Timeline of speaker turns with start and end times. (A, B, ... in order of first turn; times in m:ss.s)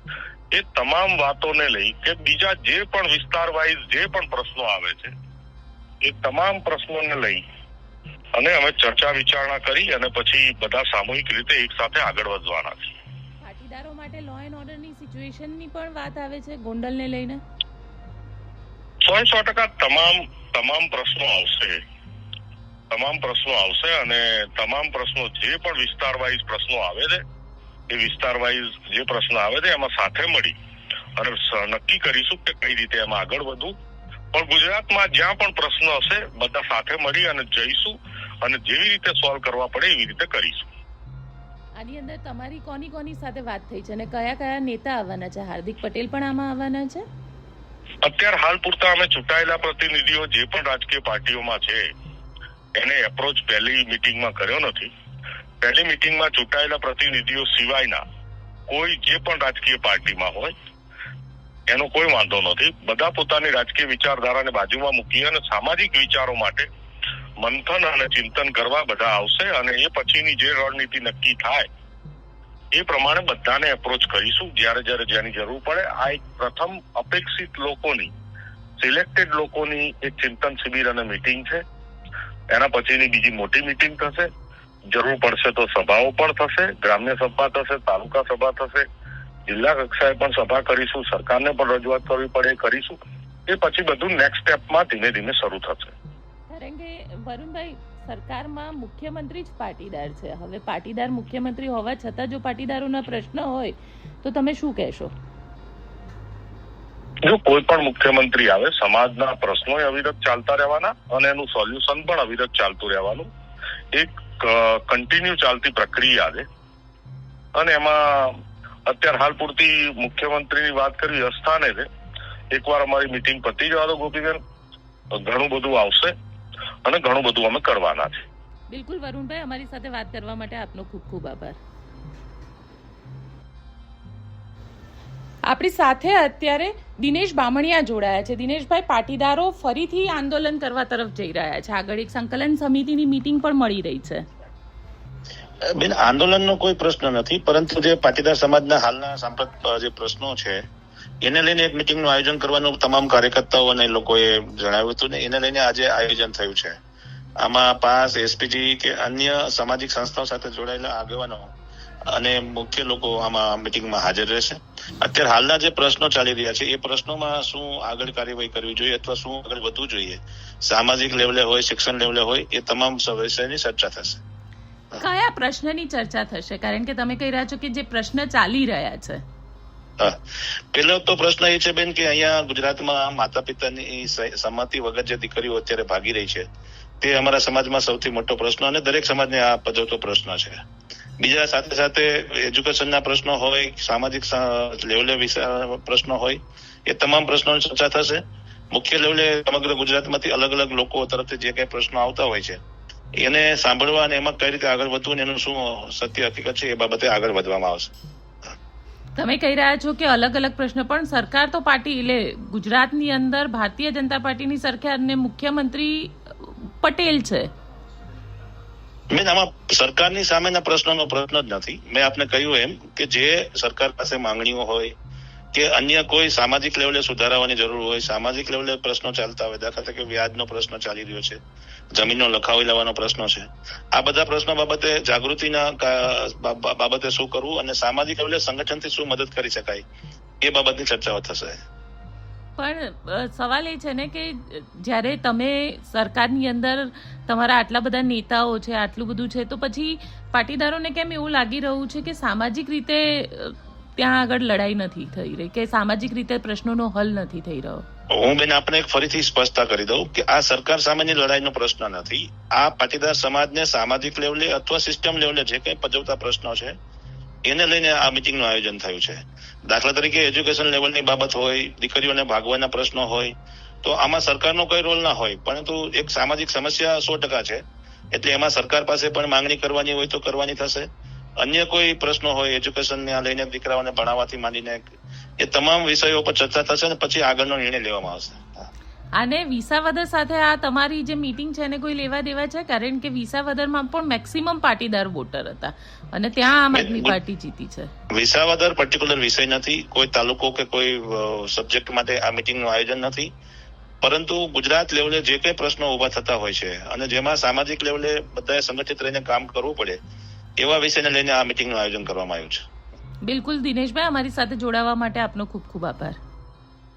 0:00.5-0:05.1 A
0:06.0-0:07.4 A
0:08.3-0:12.8 A
0:13.4-0:17.4 B
0:19.0-0:21.8 A
0:22.9-0:27.2 A
0:27.9-0:30.5 A
0:31.2-0:33.7 A
0:34.3-0:40.7 A
0:41.8-0:47.0 B
0:48.0-0:51.8 A
0:52.8-0:54.9 A
0:55.6-0:58.0 A
0:58.7-1:00.5 A
1:01.7-1:06.7 A
1:07.4-1:11.7 A
1:12.7-1:18.1 A
1:18.8-1:21.6 A
1:22.5-1:24.3 A
1:24.9-1:28.8 A
1:29.5-1:35.9 A
1:36.5-1:45.1 B
1:47.2-1:53.3 A
1:53.9-1:56.4 A
1:57.5-2:01.9 A
2:02.5-2:04.4 A
2:05.2-2:06.1 A
2:06.8-2:08.2 A
2:08.7-2:11.6 B
2:15.4-2:24.3 B
2:25.6-2:30.6 C
2:31.2-2:36.8 C
2:37.4-2:41.5 C
2:42.0-2:54.2 C
2:55.0-2:59.2 B
3:00.7-3:06.4 C
3:07.0-3:10.6 C
3:11.2-3:18.2 C
3:18.7-3:22.6 C
3:23.2-3:27.9 C
3:29.2-3:37.5 B
3:39.1-3:44.9 C
3:45.5-3:51.4 C
3:51.9-3:59.8 C
4:00.4-4:01.6 C
4:02.6-4:17.8 B
4:18.1-4:26.7 C
4:27.4-4:37.6 C
4:38.1-4:40.9 C
4:41.4-4:48.7 C
4:49.1-4:57.9 B
4:56.7-4:57.2 C
4:58.1-5:03.3 C
5:04.0-5:10.0 C
5:10.6-5:12.6 C
5:13.2-5:16.2 B